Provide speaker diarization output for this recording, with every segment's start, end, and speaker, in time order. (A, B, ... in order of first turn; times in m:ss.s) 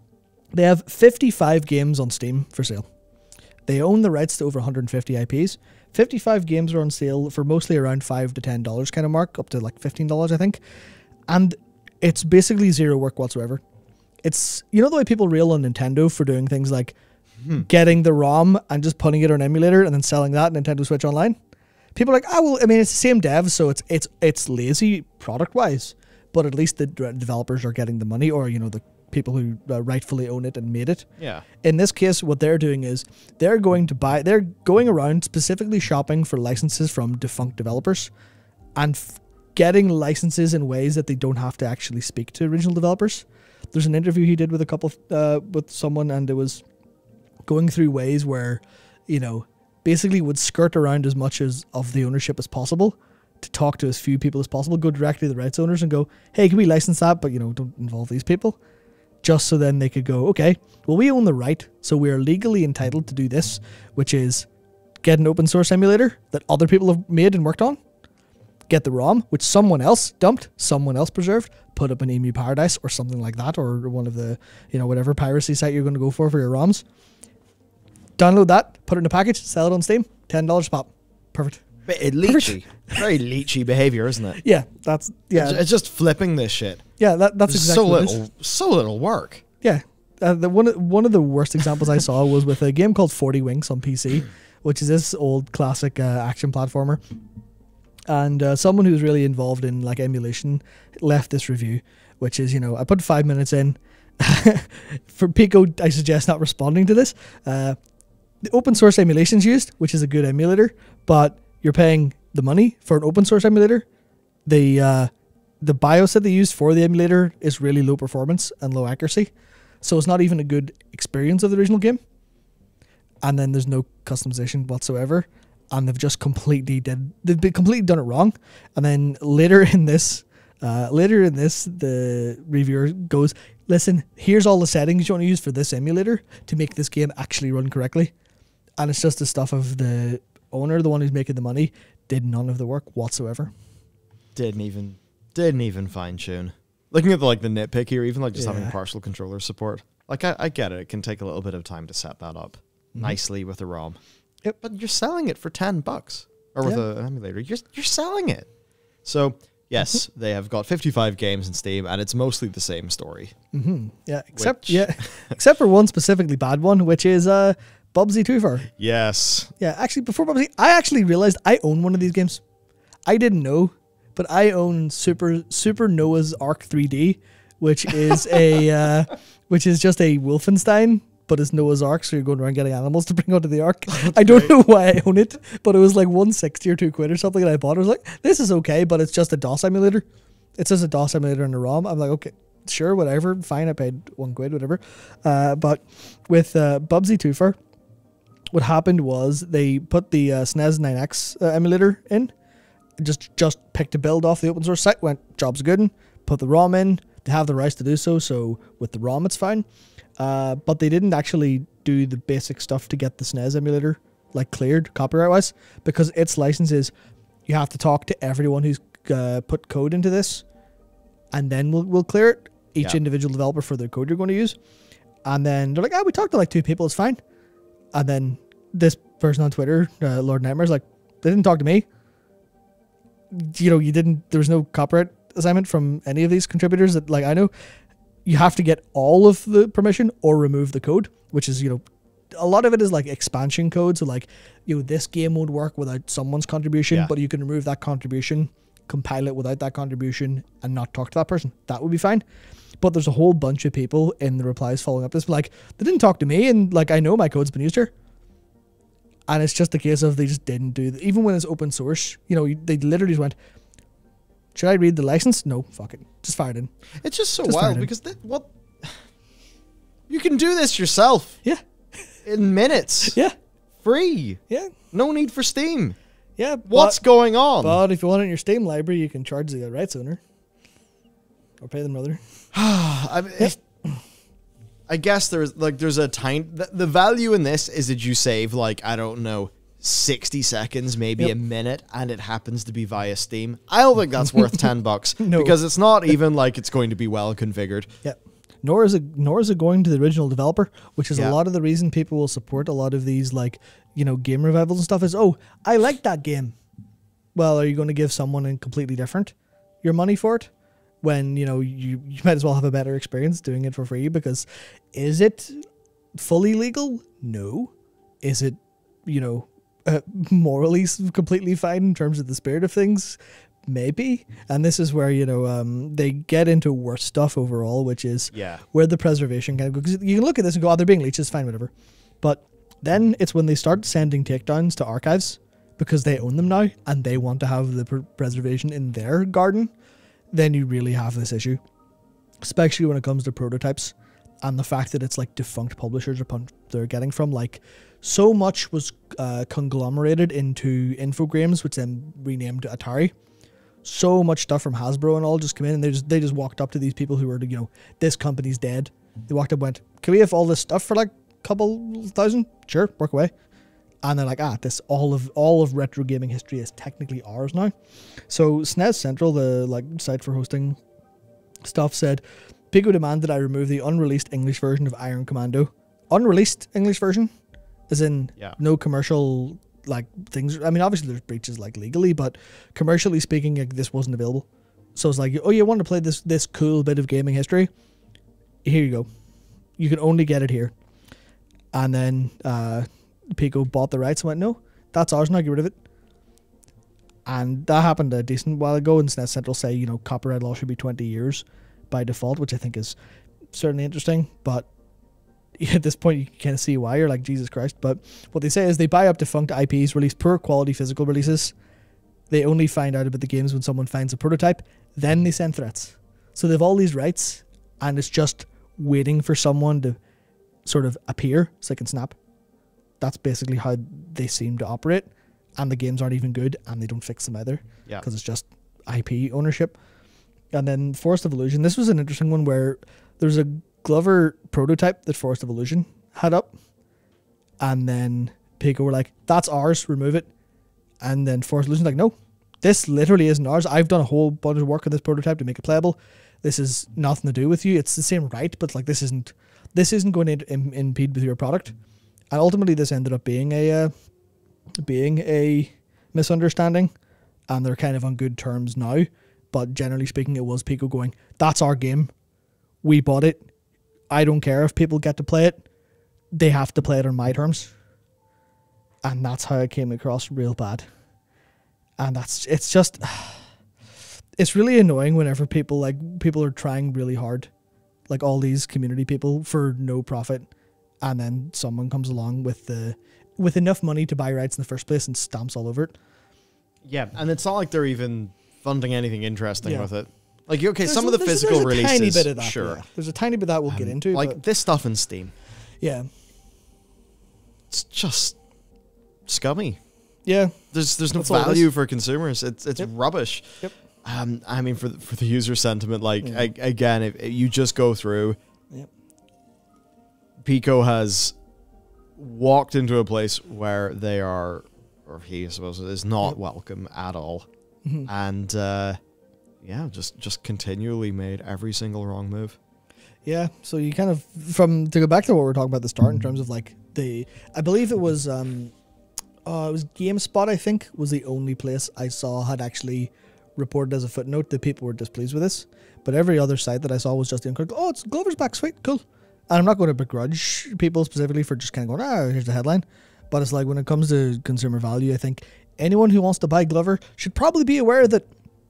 0:00.5-0:02.8 A
0:03.7-0:10.6 A
0:11.3-0:13.6 A
0:14.2-0:17.0 A
0:17.5-0:21.4 A
0:21.9-0:31.1 A
0:31.2-0:31.4 B
0:31.6-0:38.1 A
0:38.8-0:46.6 A
0:47.5-0:58.6 A
0:59.2-1:04.5 A
1:05.0-1:07.8 A
1:08.7-1:16.8 A
1:18.2-1:21.6 A
1:21.8-1:24.4 B
1:22.2-1:23.0 A
1:24.4-1:25.6 A
1:25.3-1:26.8 B
1:27.0-1:28.2 A
1:27.5-1:29.4 B
1:29.6-1:37.0 A
1:38.1-1:47.8 A
1:48.4-1:53.8 A
1:54.4-1:55.1 A
1:55.6-1:59.3 A
1:59.8-2:02.0 A
2:03.2-2:18.1 A
2:18.8-2:23.5 A
2:24.3-2:34.0 B
2:28.4-2:28.8 A
2:34.6-2:38.5 B
2:39.0-2:43.3 B
2:43.5-2:48.7 A
2:44.4-2:45.3 B
2:48.8-2:49.5 B
2:49.6-2:52.4 A
2:53.0-3:10.0 A
3:03.9-3:04.5 B
3:10.6-3:17.6 A
3:18.5-3:22.3 A
3:23.0-3:29.6 A
3:30.2-3:36.9 A
3:37.5-3:40.4 A
3:41.3-3:44.6 A
3:45.2-3:47.2 A
3:47.9-3:51.8 A
3:53.3-3:57.5 A
3:58.2-4:01.8 A
4:02.3-4:12.2 A
4:12.8-4:17.9 A
4:19.3-4:23.4 A
4:24.5-4:26.7 A
4:27.0-4:28.9 B
4:27.4-4:27.9 A
4:30.1-4:31.4 B
4:32.2-4:33.2 B
4:33.0-4:33.3 A
4:33.8-4:34.4 B
4:34.9-4:36.0 B
4:36.4-4:37.0 A
4:36.6-4:37.8 B
4:37.6-4:40.2 A
4:41.6-4:42.2 A
4:42.5-4:43.5 B
4:43.4-4:44.0 A
4:44.9-4:57.9 B
4:55.2-4:55.6 A
4:58.0-5:06.5 A
5:07.3-5:10.5 A
5:11.0-5:15.6 A
5:16.2-5:31.7 A
5:28.3-5:28.6 B
5:32.2-5:39.7 A
5:40.3-5:41.6 A
5:42.4-5:53.1 A
5:53.8-6:03.3 A
6:04.0-6:07.7 A
6:08.3-6:10.8 A
6:11.6-6:17.3 A
6:17.9-6:27.7 A
6:28.6-6:29.1 A
6:29.8-6:30.7 A
6:31.7-6:35.7 A
6:37.2-6:43.0 A
6:43.5-6:44.7 A
6:45.6-6:51.5 A
6:52.3-7:00.0 A
7:00.6-7:02.2 A
7:03.0-7:09.8 A
7:10.5-7:16.5 A
7:17.6-7:20.3 A
7:21.0-7:31.7 A
7:32.3-7:33.9 A
7:34.8-7:36.9 A
7:37.5-7:42.1 A
7:42.8-7:43.4 A
7:44.1-7:45.6 A
7:46.3-7:47.7 A
7:49.0-7:50.8 A
7:52.0-7:53.5 A
7:54.4-7:57.5 A
7:58.1-8:00.5 A
8:01.0-8:06.0 A
8:06.8-8:12.8 B
8:09.6-8:09.9 A
8:10.8-8:14.4 A
8:13.7-8:15.3 B
8:15.8-8:16.1 A
8:17.7-8:18.4 B
8:19.2-8:19.8 B
8:20.2-8:21.7 A
8:20.7-8:28.4 B
8:26.2-8:26.5 A
8:30.4-8:31.4 B
8:32.2-8:37.4 B
8:38.0-8:39.0 B
8:39.6-8:42.6 B
8:43.2-8:48.7 A
8:49.4-9:08.2 A